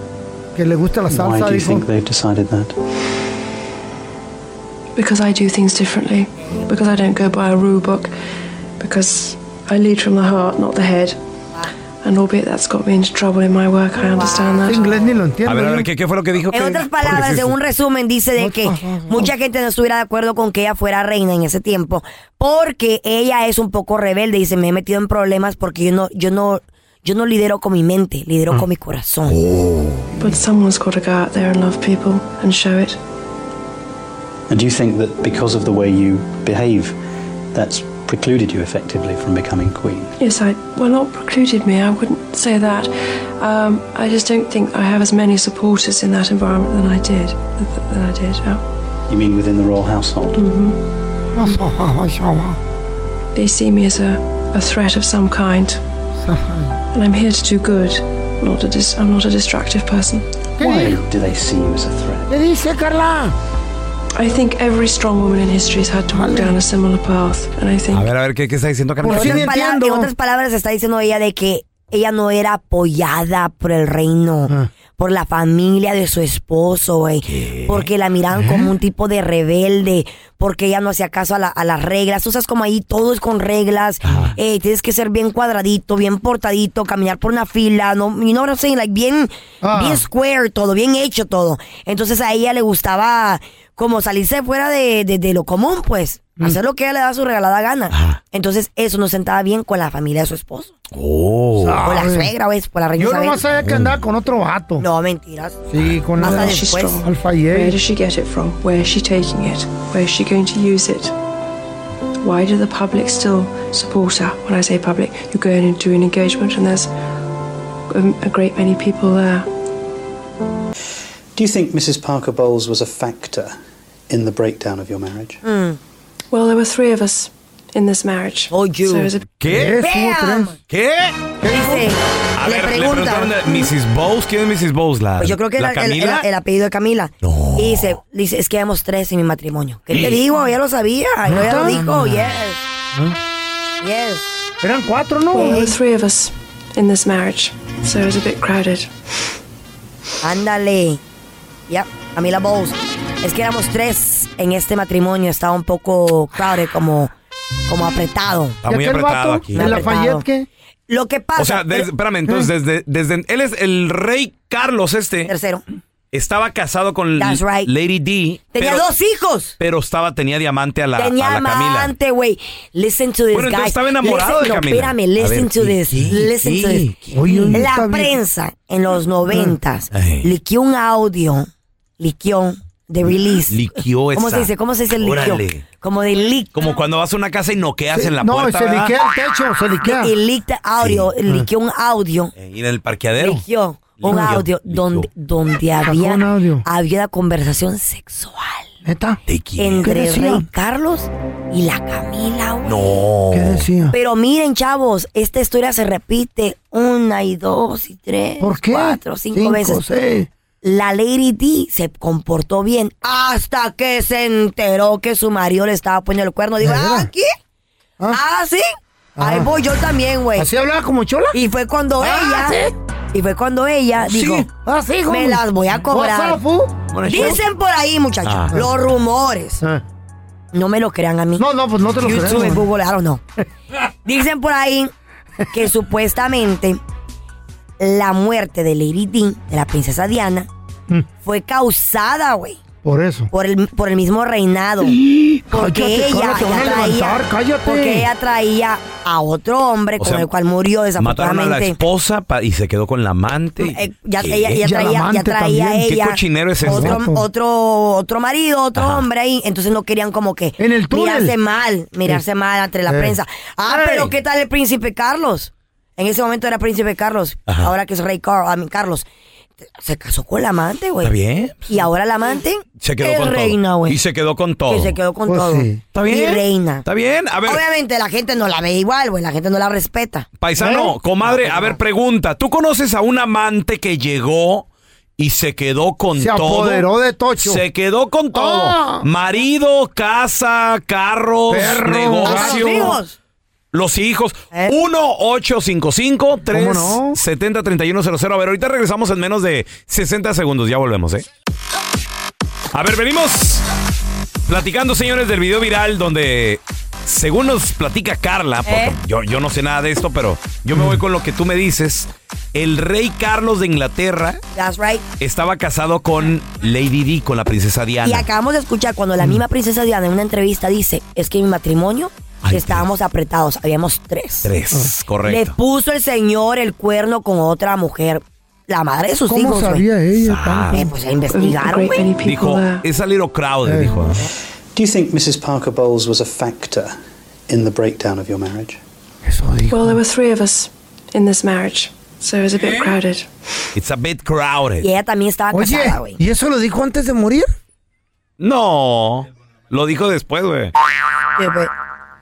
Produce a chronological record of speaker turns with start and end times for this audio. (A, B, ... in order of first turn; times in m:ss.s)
0:00.6-0:01.8 A
0:01.1-0:02.7 B
0:04.9-0:08.1 C
0:08.8-0:11.2 C
0:12.0-0:14.9 C
0:14.1-0:14.8 D
0:14.6-0:15.9 A
0:15.4-0:17.5 E
0:16.5-0:29.4 D
0:18.4-0:19.3 A
0:29.3-0:30.1 E
0:30.2-0:33.0 C
0:34.5-0:37.0 B
0:37.5-0:40.1 B
0:40.2-0:48.6 C
0:49.1-0:50.4 B
0:50.3-0:50.8 C
0:51.3-0:52.6 A
0:53.3-0:55.8 C
0:56.2-0:56.7 A
0:56.9-1:00.3 C
1:00.6-1:01.0 A
1:00.6-1:02.3 B
1:02.3-1:03.3 A
1:04.2-1:08.1 C
1:06.1-1:06.6 A
1:07.9-1:09.5 E
1:09.0-1:10.1 A
1:09.1-1:40.7 D
1:17.3-1:17.9 E
1:18.3-1:18.7 A
1:24.0-1:24.4 E
1:29.6-1:30.0 A
1:37.9-1:38.2 E
1:40.9-1:41.8 E
1:41.6-1:42.3 A
1:41.8-1:43.4 D
1:43.0-1:44.8 A
1:43.6-1:44.0 E
1:44.8-1:45.6 D
1:45.7-1:47.8 A
1:46.2-1:47.0 D
1:46.2-1:51.1 C
1:52.2-1:56.9 C
1:57.9-1:59.5 C
2:01.3-2:03.6 B
2:04.1-2:05.4 B
2:05.4-2:05.8 D
2:06.3-2:09.3 C
2:08.5-2:09.1 D
2:09.4-2:09.8 E
2:09.5-2:10.6 A
2:09.8-2:10.5 D
2:10.7-2:11.3 E
2:11.4-2:11.9 A
2:11.4-2:13.7 D
2:12.4-2:16.2 E
2:15.2-2:22.6 D
2:17.2-2:18.0 E
2:21.3-2:22.2 A
2:23.8-2:24.3 D
2:24.6-2:25.7 A
2:25.3-2:28.9 C
2:25.4-2:25.7 D
2:30.2-2:31.0 D
2:31.7-2:37.1 D
2:37.7-2:38.6 D
2:38.6-2:39.9 E
2:38.6-2:40.5 A
2:39.5-2:40.2 D
2:40.9-2:41.9 D
2:41.4-2:45.3 E
2:45.3-2:45.6 D
2:46.1-2:48.9 E
2:47.2-2:47.7 D
2:48.5-2:49.6 D
2:49.6-2:51.9 E
2:51.0-2:56.9 D
2:53.3-2:57.6 E
2:57.1-2:58.2 A
2:57.5-3:03.6 D
2:59.9-3:00.3 E
3:03.5-3:05.6 E
3:04.1-3:06.7 D
3:06.5-3:08.9 E
3:07.9-3:10.1 A
3:09.8-3:12.3 D
3:10.8-3:11.1 E
3:12.4-3:13.4 E
3:13.2-3:18.7 D
3:14.0-3:15.1 E
3:15.8-3:16.6 A
3:18.8-3:19.2 A
3:19.3-3:19.8 E
3:19.6-3:22.8 D
3:19.8-3:20.4 A
3:22.6-3:23.6 E
3:23.3-3:23.9 A
3:23.9-3:29.8 D
3:28.4-3:30.3 A
3:30.6-3:37.3 D
3:36.6-3:37.1 A
3:38.1-3:38.7 D
3:39.2-3:39.5 A
3:39.2-3:40.5 D
3:40.4-3:41.4 A
3:41.3-3:44.5 D
3:42.0-3:42.7 A
3:44.0-3:47.3 A
3:45.1-3:46.4 D
3:46.9-3:47.4 E
3:47.0-3:49.6 D
3:48.2-3:48.5 E
3:50.5-3:51.4 D
3:51.4-3:52.6 A
3:52.0-3:53.2 D
3:54.0-3:54.9 D
3:55.5-3:56.8 D
3:57.8-4:00.5 D
4:01.2-4:02.6 D
4:02.8-4:03.3 A
4:03.3-4:05.0 D
4:04.8-4:08.1 A
4:05.5-4:11.8 D
4:10.0-4:10.3 E
4:11.0-4:14.6 E
4:13.6-4:29.0 D
4:14.6-4:15.9 A
4:15.8-4:17.0 E
4:16.6-4:17.2 A
4:18.8-4:19.0 E
4:20.6-4:21.3 A
4:22.9-4:24.1 A
4:29.7-4:31.1 D
4:31.0-4:31.7 E
4:31.7-4:34.0 D
4:32.8-4:35.0 E
4:34.7-4:36.8 D
4:35.3-4:35.8 A
4:35.9-4:37.6 E
4:37.4-4:40.3 D
4:40.4-4:44.7 E
4:40.6-4:40.9 A
4:41.2-4:41.8 D
4:45.2-4:46.9 E
4:46.2-4:47.6 A
4:47.4-4:53.0 E
4:48.3-4:49.0 A
4:51.5-4:53.0 A
4:52.2-4:53.2 D
4:53.7-5:01.2 E
4:56.5-4:57.2 A
5:02.7-5:03.6 E
5:04.5-5:14.4 E
5:08.6-5:08.9 D
5:14.5-5:15.0 D
5:15.2-5:18.3 E
5:18.0-5:24.5 D
5:22.4-5:22.9 E
5:24.4-5:25.5 E
5:25.2-5:29.8 D
5:29.3-5:30.8 A
5:30.2-5:30.8 E
5:30.7-5:32.1 D
5:31.3-5:32.8 C
5:32.2-5:34.2 E
5:33.6-5:34.1 A
5:34.7-5:38.8 B
5:39.2-5:40.0 A
5:39.7-5:43.3 C
5:43.7-5:44.9 E
5:44.8-5:46.2 D
5:45.5-5:47.5 A
5:48.4-5:50.7 E
5:51.4-5:51.7 D